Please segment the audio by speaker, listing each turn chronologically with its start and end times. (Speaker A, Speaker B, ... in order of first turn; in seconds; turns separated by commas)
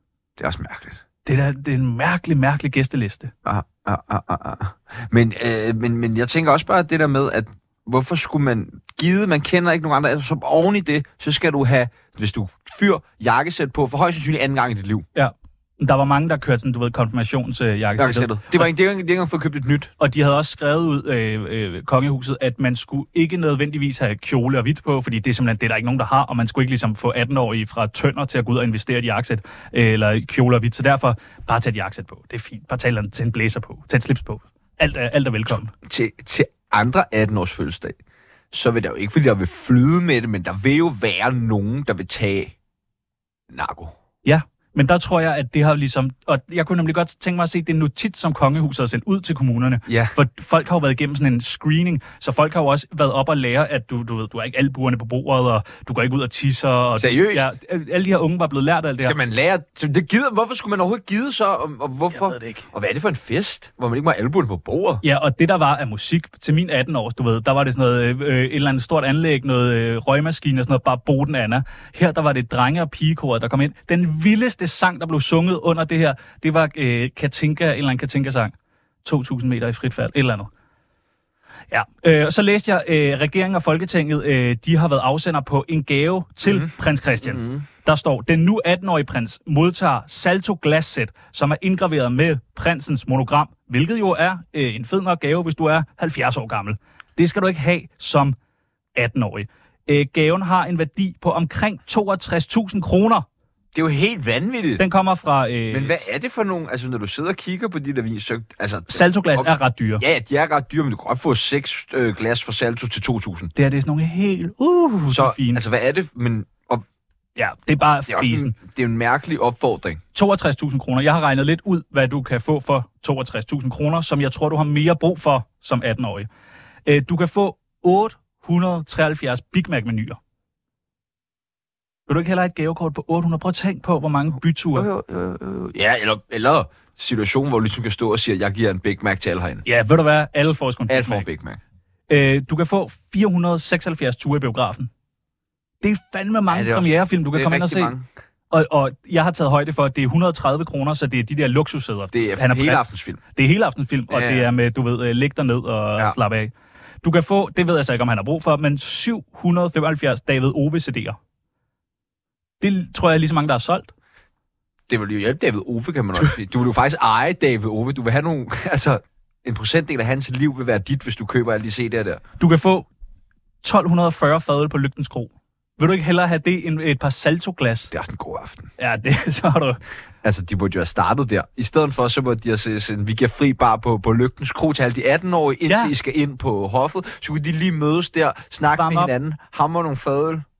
Speaker A: 0.4-1.0, Speaker B: 1.2-3.3, Speaker A: 3.4-15.1, Speaker B: 15.1-18.7, Speaker A: 18.0-19.9, Speaker B: 20.0-35.7, Speaker A: 35.5-38.0, Speaker A: 38.5-42.5, Speaker A: 43.5-43.9, Speaker B: 44.2-59.1, Speaker A: 49.9-50.1, Speaker A: 57.0-57.5, Speaker A: 59.0-65.0, Speaker B: 62.1-62.7, Speaker B: 65.0-80.5, Speaker B: 81.7-98.3, Speaker A: 86.4-87.7, Speaker B: 99.0-103.2, Speaker A: 103.7-104.8, Speaker B: 104.8-106.1, Speaker A: 105.7-113.5, Speaker B: 108.9-110.0, Speaker B: 113.5-115.6, Speaker A: 115.1-116.8, Speaker B: 117.3-118.5, Speaker A: 118.1-120.0, Speaker B: 120.1-126.3, Speaker B: 126.8-130.2, Speaker B: 132.1-134.9, Speaker A: 134.7-139.6, Speaker B: 139.6-141.3, Speaker A: 140.9-141.6, Speaker B: 142.1-144.9, Speaker B: 145.8-147.9, Speaker A: 146.5-148.1, Speaker B: 148.5-156.5, Speaker A: 152.1-153.2, Speaker A: 154.1-154.5, Speaker B: 157.0-161.2, Speaker B: 162.6-163.9, Speaker A: 164.9-172.2, Speaker B: 172.4-172.9, Speaker B: 173.6-177.9, Speaker A: 177.9-178.7, Speaker B: 178.8-179.8, Speaker A: 180.2-190.4, Speaker B: 185.7-185.9, Speaker B: 188.8-189.1